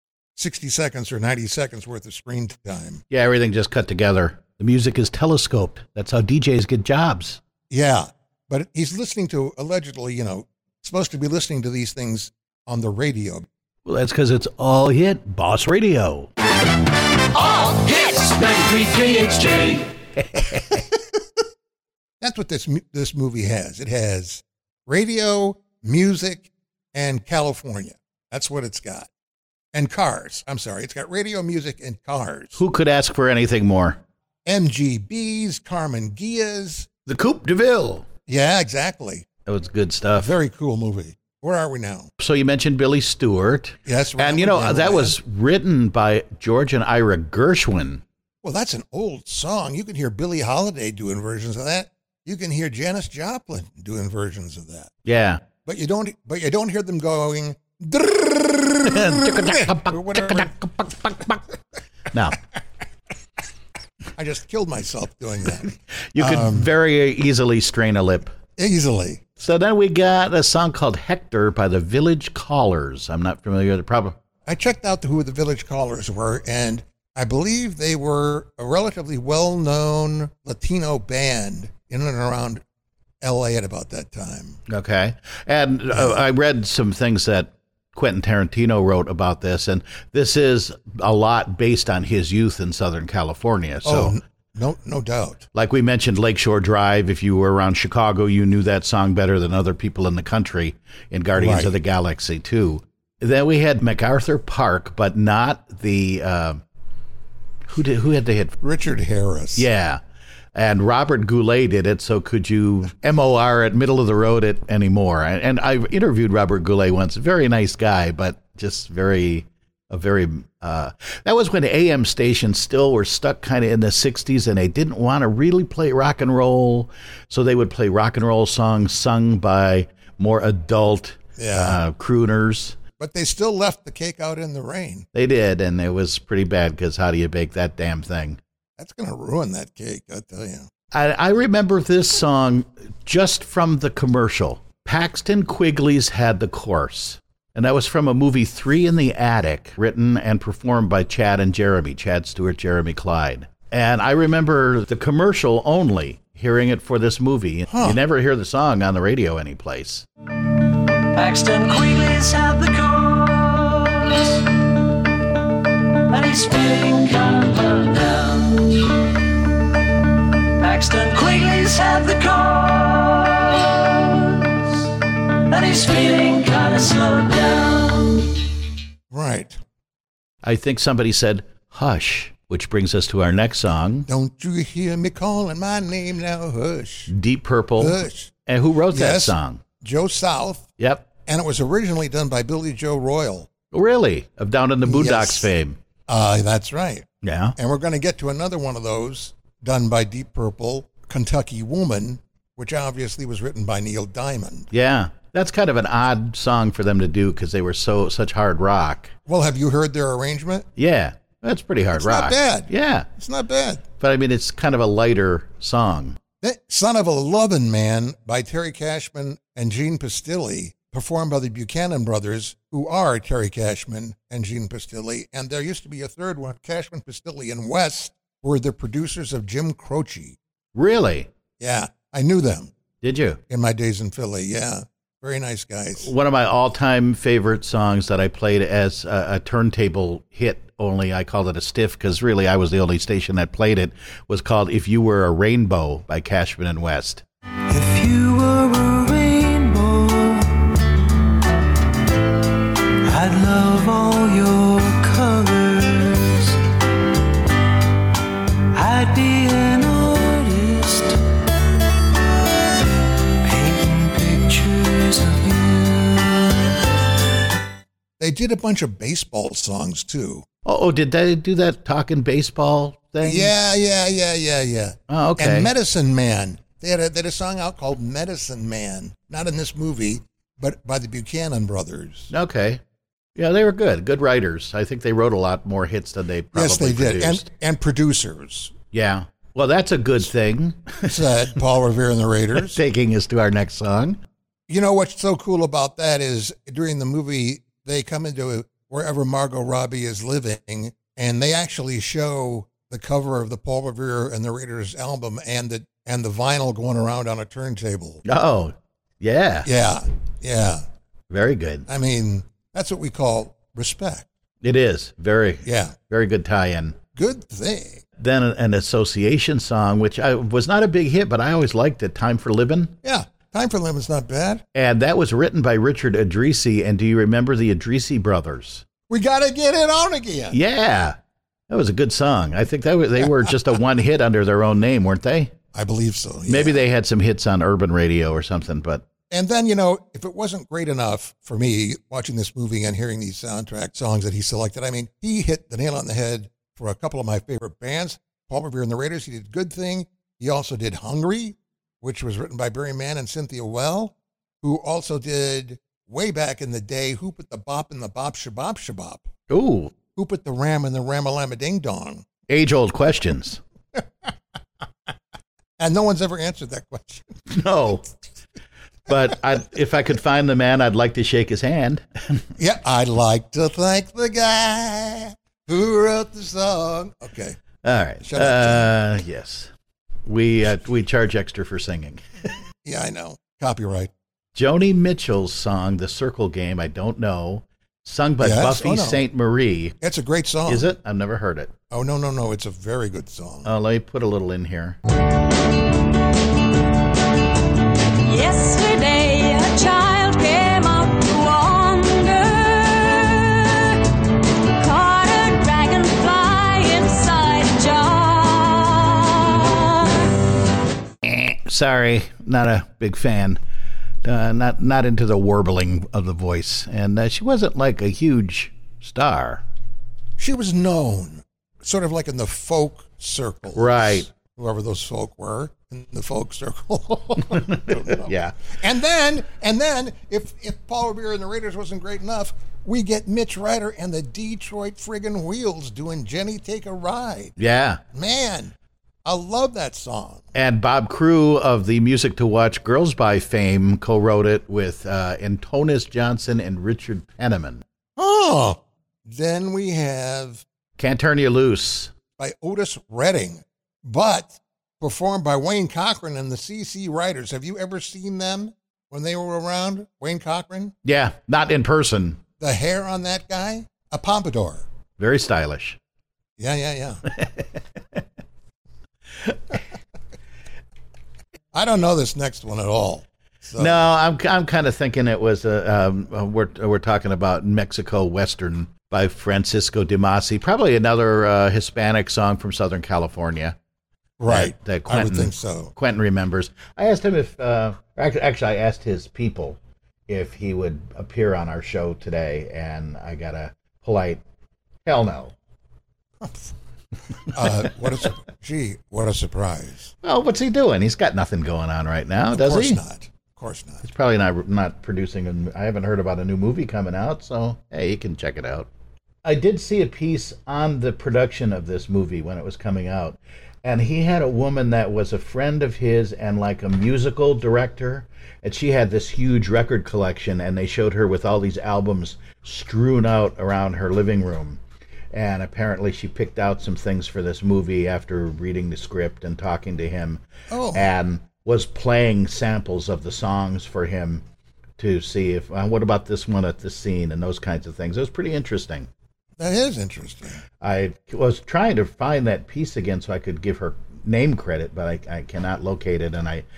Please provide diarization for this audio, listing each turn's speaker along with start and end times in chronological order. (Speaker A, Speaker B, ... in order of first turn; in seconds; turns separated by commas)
Speaker A: 0.4-3.0, Speaker B: 3.1-7.4, Speaker A: 7.7-13.5, Speaker B: 13.9-16.3, Speaker C: 17.4-19.9, Speaker B: 20.2-20.8, Speaker A: 22.2-29.1, Speaker A: 29.7-32.6, Speaker B: 32.6-34.0, Speaker A: 34.5-36.9, Speaker B: 37.1-38.1, Speaker A: 38.3-39.3, Speaker B: 39.5-40.3, Speaker A: 40.2-42.1, Speaker B: 42.2-48.0, Speaker A: 43.9-45.2, Speaker A: 48.4-54.9, Speaker B: 55.1-55.4, Speaker A: 55.6-60.7, Speaker B: 58.9-61.4, Speaker B: 62.1-62.4, Speaker A: 64.2-66.7, Speaker B: 66.0-68.3, Speaker A: 68.6-69.2, Speaker B: 69.4-74.2, Speaker A: 74.5-82.6, Speaker A: 83.2-84.6, Speaker B: 84.7-94.2, Speaker A: 93.8-95.5, Speaker B: 95.5-106.6, Speaker A: 101.4-101.7, Speaker B: 107.7-108.6, Speaker A: 108.6-109.7, Speaker B: 109.6-110.0, Speaker B: 110.5-132.8, Speaker A: 131.4-131.8, Speaker A: 133.0-135.1, Speaker B: 135.1-138.4, Speaker A: 138.8-140.7, Speaker B: 140.9-160.1, Speaker A: 157.7-158.0, Speaker C: 161.1-164.5, Speaker C: 166.1-168.9, Speaker C: 170.6-178.3, Speaker A: 179.1-179.6, Speaker B: 180.4-184.1, Speaker A: 184.1-187.1, Speaker B: 187.1-189.6, Speaker A: 187.8-188.3, Speaker A: 188.9-190.7, Speaker B: 190.8-191.1, Speaker A: 191.3-193.5, Speaker B: 193.7-195.8, Speaker A: 194.8-195.5, Speaker A: 196.1-204.7, Speaker B: 197.2-197.6, Speaker B: 204.7-209.1, Speaker A: 209.3-210.7, Speaker B: 210.8-213.1, Speaker A: 211.9-213.8, Speaker B: 214.0-216.2, Speaker A: 216.4-230.4, Speaker B: 230.8-231.3, Speaker A: 231.6-232.7, Speaker B: 233.0-233.4, Speaker A: 233.5-236.1, Speaker B: 236.0-247.2, Speaker C: 247.7-250.7, Speaker C: 253.0-256.6, Speaker C: 258.7-261.3, Speaker C: 263.4-266.8, Speaker A: 268.2-270.5, Speaker B: 270.6-273.5, Speaker A: 273.2-282.3, Speaker B: 275.1-275.7, Speaker B: 282.3-282.8, Speaker B: 283.4-287.5, Speaker A: 286.5-288.7, Speaker B: 288.9-291.5, Speaker A: 291.0-292.8, Speaker B: 292.6-294.2, Speaker A: 294.7-308.2, Speaker B: 308.2-309.7, Speaker A: 309.6-310.8, Speaker B: 311.3-311.9, Speaker A: 311.9-314.3, Speaker B: 314.6-317.0, Speaker A: 315.6-315.9, Speaker A: 317.1-318.0, Speaker B: 318.2-322.9, Speaker A: 323.0-324.6, Speaker B: 324.7-328.9, Speaker A: 329.1-330.6, Speaker B: 330.5-331.2, Speaker B: 331.7-335.5, Speaker A: 335.7-336.8, Speaker B: 336.5-339.1, Speaker A: 339.3-359.3, Speaker B: 359.5-359.9, Speaker A: 360.1-362.3, Speaker B: 362.5-363.6, Speaker A: 365.8-367.3, Speaker B: 367.5-368.1, Speaker B: 369.1-372.5, Speaker A: 372.6-377.6, Speaker B: 377.8-379.7, Speaker A: 378.2-378.9, Speaker B: 380.3-382.5, Speaker A: 382.8-384.1, Speaker B: 384.6-389.9, Speaker A: 388.4-389.2, Speaker A: 390.0-390.9, Speaker B: 390.7-391.7, Speaker A: 391.9-393.7, Speaker B: 393.6-395.0, Speaker D: 398.2-404.1, Speaker D: 404.7-410.4, Speaker B: 411.2-413.6, Speaker B: 414.2-419.6, Speaker A: 420.4-437.6, Speaker B: 423.7-424.3, Speaker B: 427.5-428.7, Speaker B: 437.6-438.0, Speaker A: 438.1-438.7, Speaker A: 439.2-440.5, Speaker B: 440.5-447.8, Speaker A: 448.2-450.6, Speaker B: 451.0-452.1, Speaker A: 452.4-460.9, Speaker B: 461.1-462.4, Speaker A: 462.6-464.9, Speaker B: 465.2-466.0, Speaker A: 466.6-467.2, Speaker B: 467.3-468.2, Speaker B: 469.4-469.8, Speaker A: 471.7-474.1, Speaker B: 473.8-483.8, Speaker A: 484.4-485.9, Speaker B: 484.5-494.4, Speaker B: 495.1-495.5, Speaker A: 497.5-500.1, Speaker B: 500.2-503.0, Speaker A: 502.5-504.0, Speaker B: 504.0-508.9, Speaker B: 509.4-524.8, Speaker B: 525.3-530.4, Speaker A: 530.7-531.1, Speaker B: 530.9-534.4, Speaker B: 535.0-539.1, Speaker A: 539.6-540.6, Speaker B: 540.8-546.6